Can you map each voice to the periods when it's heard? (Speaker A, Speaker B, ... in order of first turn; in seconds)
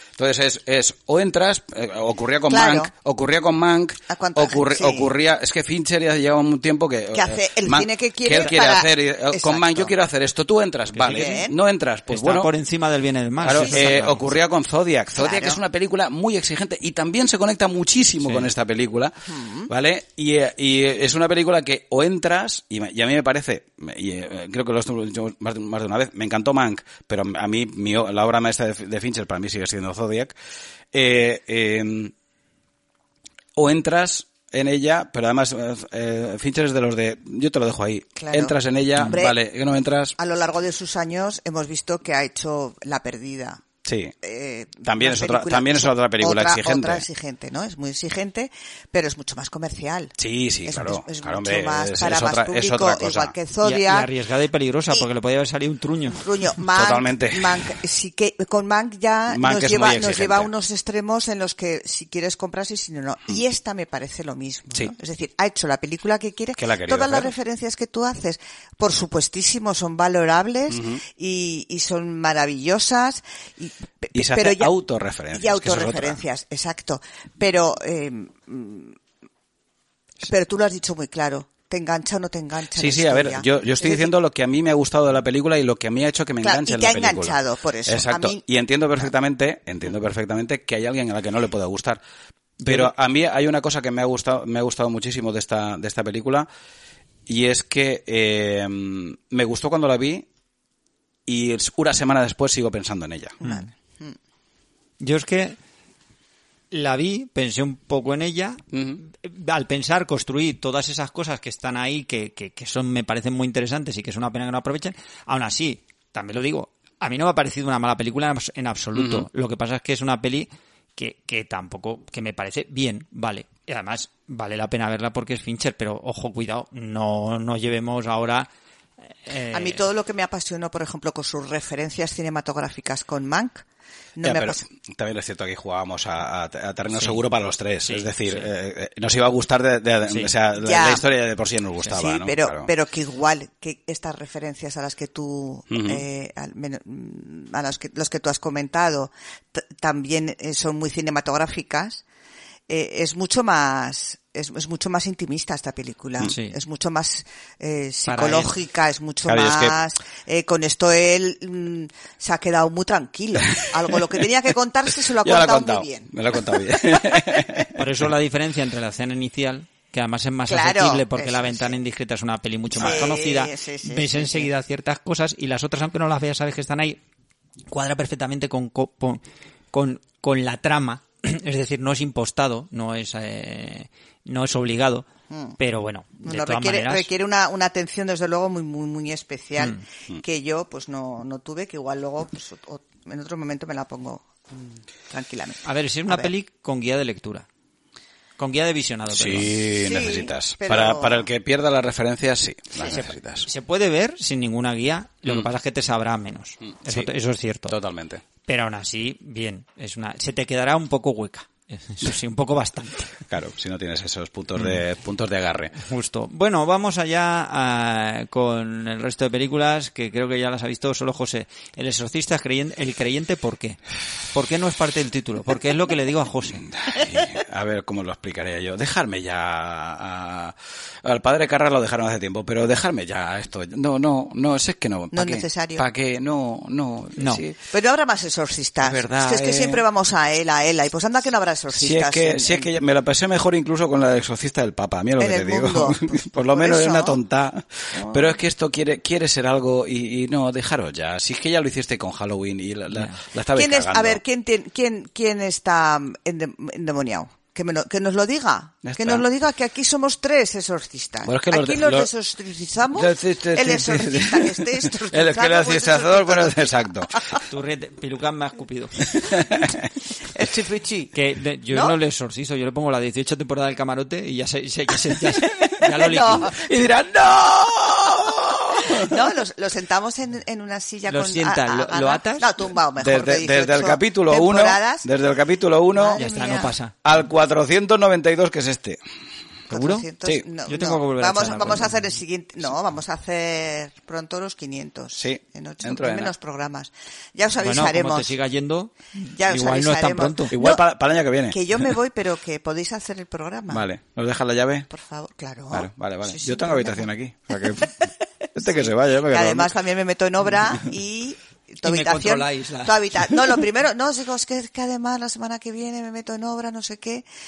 Speaker A: 0.2-12.5, 13.4-30.4, 30.9-32.1, 33.6-40.1, 43.9-44.1, 44.8-47.0, 50.2-53.4, 56.7-57.7, 59.3-60.5, 66.6-67.3, 70.7-71.0, 74.2-76.2, 82.8-92.0, 92.7-96.5, 97.3-100.3, 101.3-103.4, 108.7-109.0, 119.0-119.3, 134.2-142.7, 145.7-146.0, 159.2-159.8, 165.2-167.8, 172.8-173.1, 199.1-203.5, 206.8-207.1, 207.7-208.2, 213.2-215.8, 226.7-237.6, 238.8-239.8, 241.7-254.2, 258.9-259.2, 261.2-262.1, 262.9-267.2, 269.2-269.9, 276.4-279.2, 283.0-286.2, 287.0-289.0, 295.1-296.3, 300.5-301.6, 303.7-304.9, 305.7-308.0, 308.6-309.7
Speaker B: 2.5-2.9, 4.1-5.1, 7.1-9.9, 11.0-11.6, 15.2-15.6, 19.3-19.7, 38.2-39.4, 40.2-43.6, 44.2-54.1, 56.1-74.7, 75.3-79.0, 80.2-84.1, 86.4-88.5, 103.4-104.2, 129.5-133.6, 134.2-134.6, 140.5-141.0, 141.9-152.0, 152.7-167.1, 170.5-171.8, 172.8-174.5, 185.3-185.6, 186.2-196.3, 199.7-201.3, 235.1-235.9, 237.7-242.7, 245.2-247.2, 247.9-248.3, 253.5-267.4, 270.3-271.1, 271.7-272.0, 275.7-276.5, 278.8-285.1, 285.9-286.8, 289.7-298.3, 299.4-300.9, 301.5-303.8, 304.9-307.1, 308.6-317.3
Speaker C: 10.9-11.3, 12.1-14.3, 18.2-18.5, 53.6-56.2, 92.6-92.9, 103.4-103.7, 105.0-105.6, 106.7-128.5, 129.2-129.8, 136.9-137.2, 137.9-138.5, 156.2-156.6, 158.1-158.5, 167.8-177.0, 177.7-179.2, 179.7-185.1, 185.6-187.1, 189.6-189.8, 195.7-197.5, 198.4-199.6, 202.9-207.8, 208.5-213.2, 215.8-223.8, 224.3-226.7, 237.2-237.4, 252.9-253.2, 267.5-269.1, 271.1-276.5, 281.1-282.5, 286.2-286.9, 289.7-290.1, 290.7-291.9, 297.6-300.5, 311.8-313.3